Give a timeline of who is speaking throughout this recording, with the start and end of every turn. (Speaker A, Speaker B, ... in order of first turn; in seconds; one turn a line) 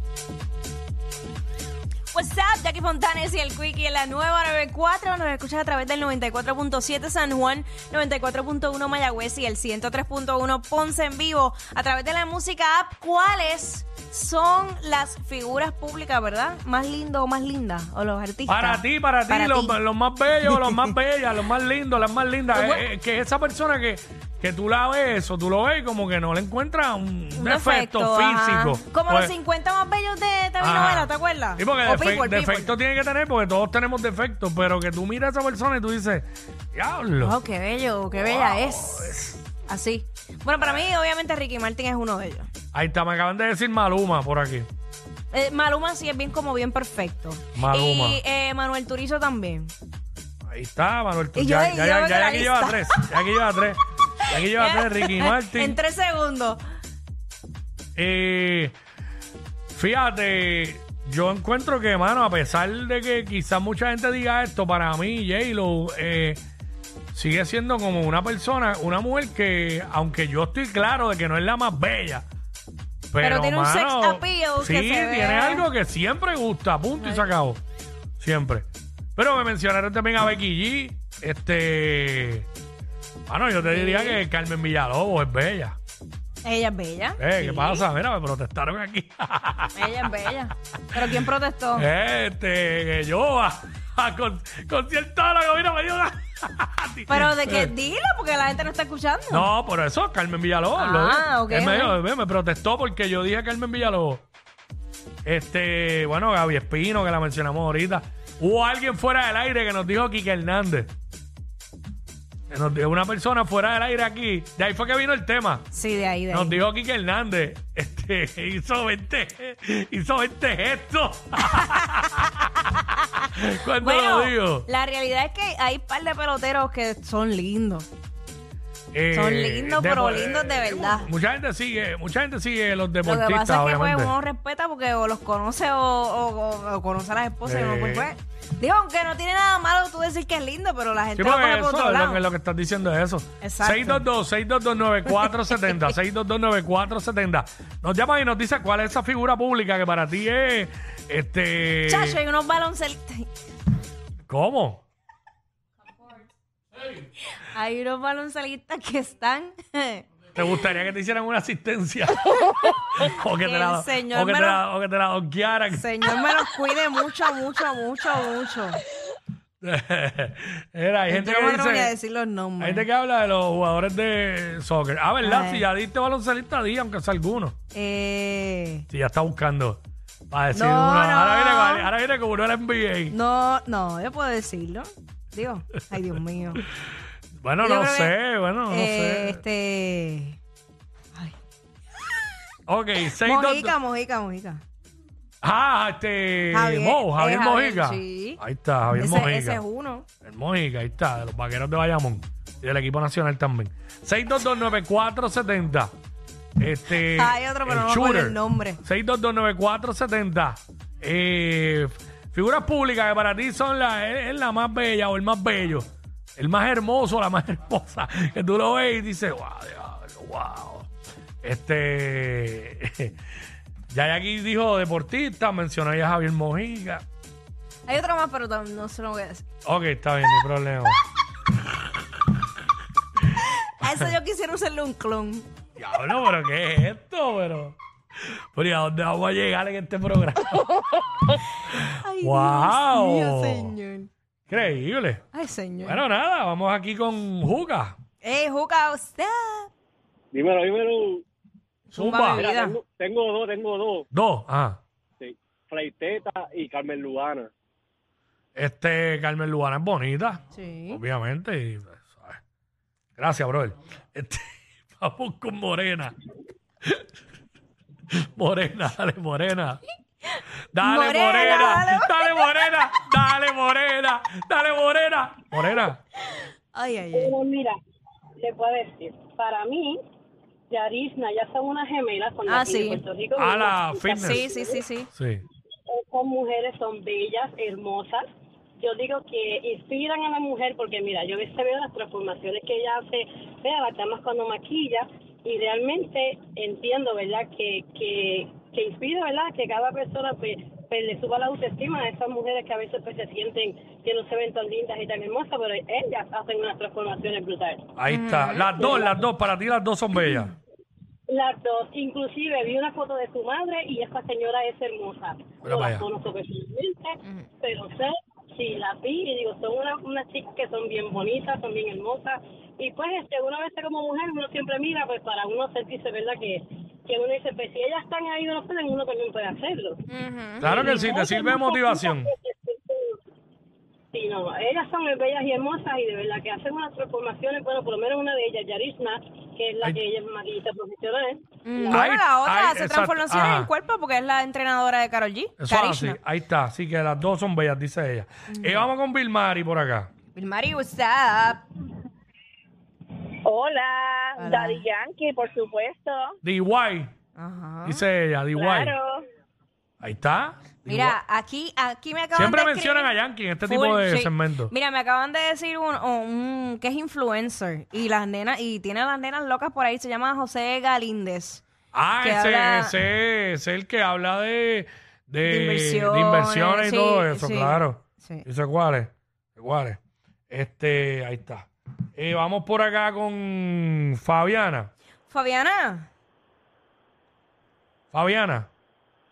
Speaker A: 2.1-19.8
Speaker B: 18.5-29.3
Speaker A: 20.5-20.8
Speaker A: 22.5-22.9
Speaker A: 27.4-32.7
Speaker B: 30.6-37.4
Speaker A: 37.2-42.5
Speaker B: 38.1-39.3
Speaker B: 40.5-40.9
Speaker B: 42.7-44.7
Speaker A: 45.3-49.7
Speaker B: 47.5-48.2
Speaker B: 50.5-55.8
Speaker A: 51.3-53.2
Speaker A: 54.3-56.6
Speaker B: 58.0-58.7
Speaker B: 59.7-66.4
Speaker B: 67.1-72.2
Speaker B: 73.1-77.6
Speaker A: 73.2-75.7
Speaker A: 77.0-77.3
Speaker B: 78.2-82.5
Speaker B: 83.3-85.8
Speaker A: 83.6-84.2
Speaker A: 86.4-87.8
Speaker B: 87.2-90.0
Speaker A: 89.7-91.9
Speaker B: 91.8-97.7
Speaker A: 97.1-99.5
Speaker B: 99.3-104.2
Speaker A: 100.7-102.0
Speaker B: 105.2-110.9
Speaker B: 112.5-115.6
Speaker A: 115.7-116.5
Speaker B: 116.3-122.5
Speaker A: 121.5-121.9
Speaker B: 123.2-124.7
Speaker A: 123.8-127.9
Speaker B: 128.9-134.1
Speaker A: 129.1-131.1
Speaker A: 133.0-142.2
Speaker B: 137.4-138.1
Speaker B: 141.2-152.2
Speaker A: 143.4-144.0
Speaker A: 151.8-153.3
Speaker B: 154.3-154.8
Speaker A: 157.4-160.0
Speaker B: 160.3-166.3
Speaker A: 162.9-164.6
Speaker A: 165.7-168.8
Speaker B: 169.6-171.9
Speaker A: 171.1-172.9
Speaker B: 172.6-177.5
Speaker A: 175.2-175.6
Speaker A: 177.7-178.8
Speaker B: 178.9-183.2
Speaker A: 180.5-181.9
Speaker A: 183.1-186.6
Speaker B: 187.4-189.4
Speaker A: 187.6-188.1
Speaker A: 188.7-190.4
Speaker B: 192.7-193.8
Speaker A: 193.2-194.6
Speaker B: 195.4-199.6
Speaker A: 196.5-198.4
Speaker A: 198.9-200.0
Speaker B: 200.2-205.9
Speaker B: 206.6-215.8
Speaker A: 206.9-208.8
Speaker B: 216.4-220.9
Speaker B: 221.4-223.1
Speaker B: 223.9-227.0
Speaker A: 227.9-229.4
Speaker B: 229.6-231.0
Speaker A: 233.8-235.5
Speaker B: 235.8-240.7
Speaker A: 241.7-244.1
Speaker B: 241.7-243.8
Speaker B: 244.5-245.2
Speaker A: 245.3-246.0
Speaker B: 245.8-247.9
Speaker A: 248.2-249.7
Speaker C: 250.3-251.2
Speaker B: 251.9-252.4
Speaker A: 251.9-252.8
Speaker C: 252.0-254.0
Speaker B: 254.1-254.8
Speaker C: 255.2-257.5
Speaker B: 258.6-262.4
Speaker A: 260.5-261.0
Speaker B: 263.2-266.1
Speaker B: 268.1-269.8
Speaker B: 270.7-276.0
Speaker A: 270.8-272.4
Speaker A: 276.7-277.3
Speaker D: 277.1-277.8
Speaker D: 278.4-280.0
Speaker D: 280.7-284.8
Speaker A: 282.4-283.0
Speaker B: 283.4-284.4
Speaker A: 284.1-285.1
Speaker B: 285.1-285.4
Speaker D: 285.9-288.2
Speaker D: 288.8-307.9
Speaker B: 308.0-310.5
Speaker A: 308.1-308.9
Speaker D: 308.8-309.1
Speaker D: 311.3-330.0
Speaker B: 315.6-316.0
Speaker A: 330.1-331.2
Speaker D: 330.6-333.1
Speaker B: 330.6-332.3
Speaker D: 334.1-342.0
Speaker A: 341.6-346.2
Speaker B: 341.9-343.7
Speaker B: 345.6-350.1
Speaker A: 348.5-348.9
Speaker A: 350.3-351.6
Speaker E: 353.4-356.2
Speaker A: 354.4-354.8
Speaker B: 356.4-357.1
Speaker A: 357.4-358.0
Speaker B: 357.8-358.9
Speaker E: 358.6-359.2
Speaker B: 360.0-361.2
Speaker A: 360.9-363.1
Speaker B: 362.3-364.7
Speaker A: 363.6-371.6
Speaker B: 371.9-380.0
Speaker A: 372.2-372.9
Speaker A: 375.4-378.4
Speaker B: 380.5-384.9
Speaker A: 385.3-386.1
Speaker B: 388.1-388.7